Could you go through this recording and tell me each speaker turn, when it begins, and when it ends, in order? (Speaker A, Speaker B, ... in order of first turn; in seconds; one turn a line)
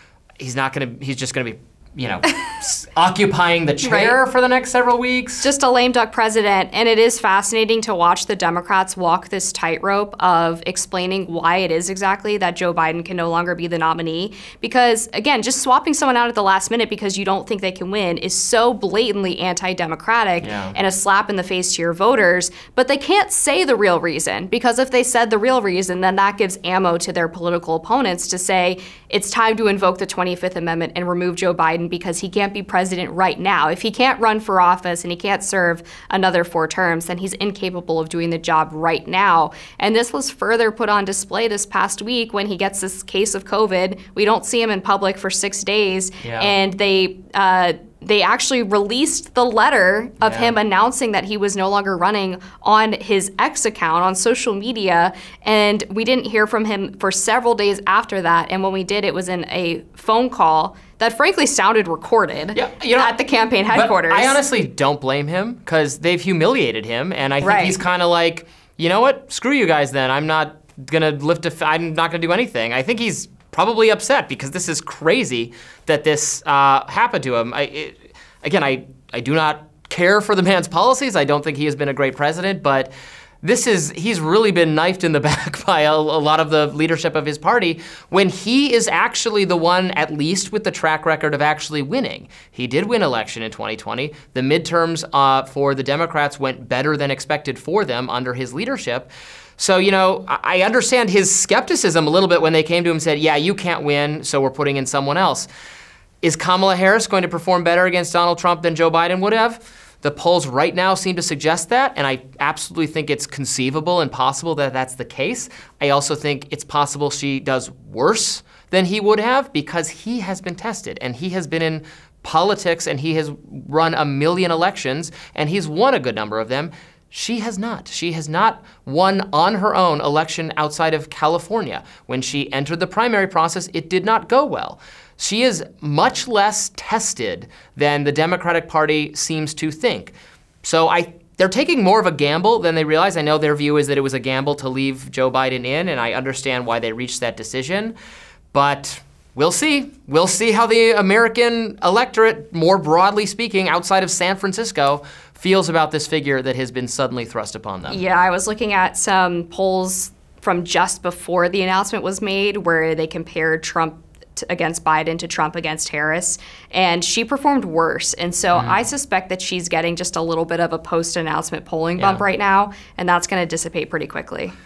Speaker A: 0.4-5.5
Speaker B: 3.8-4.2
Speaker B: 5.4-64.4
Speaker A: 20.4-20.8
Speaker A: 46.2-46.5
Speaker A: 50.2-50.5
Speaker A: 62.5-63.1
Speaker A: 63.7-105.5
Speaker B: 67.4-67.8
Speaker A: 106.2-147.9
Speaker A: 148.5-158.0
Speaker B: 157.9-174.5
Speaker A: 168.5-168.8
Speaker A: 172.0-172.2